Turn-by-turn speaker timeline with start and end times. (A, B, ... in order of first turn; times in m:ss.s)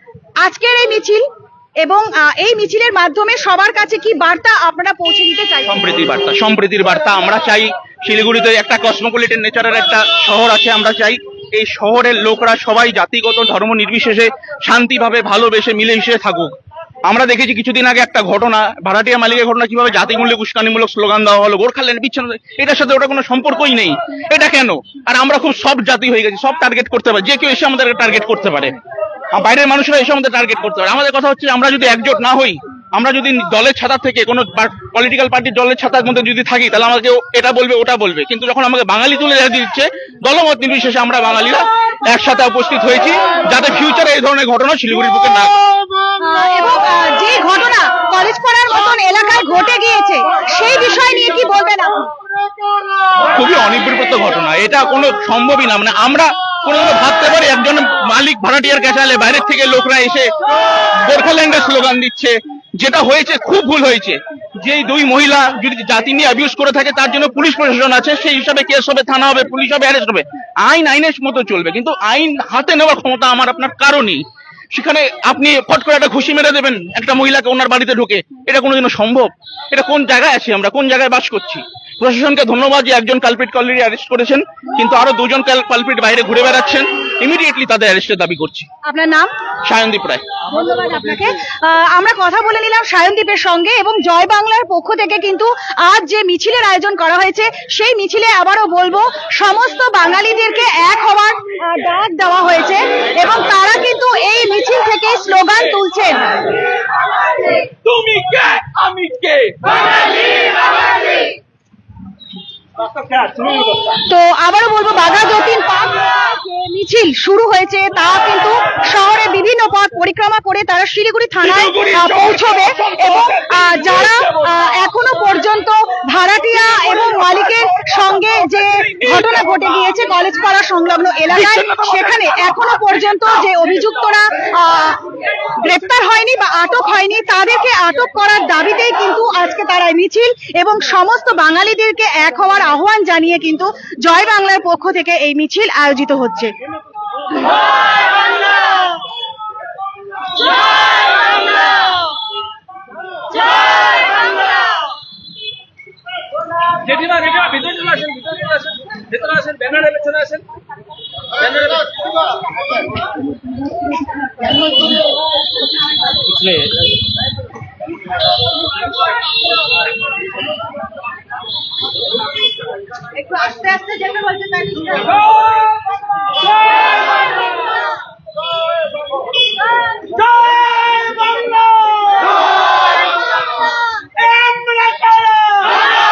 0:00.4-0:01.2 A
0:01.8-0:05.9 A
0:05.7-0:16.5 B
0:17.1-0:28.8 B
0:29.3-0:45.6 B
0:46.2-0:52.1 A
0:53.2-1:00.3 B
1:00.9-1:28.7 B
1:28.8-1:29.3 A
1:29.7-1:30.2 B
1:30.5-1:46.4 A
1:47.8-1:49.7 B
1:53.3-1:53.6 C
1:54.0-2:26.5 A
2:01.4-2:04.5 B
2:06.7-2:09.7 B
2:11.3-2:13.8 B
2:36.8-2:40.4 C
2:53.0-2:55.3 A
3:00.2-3:02.3 C
3:04.2-3:05.9 C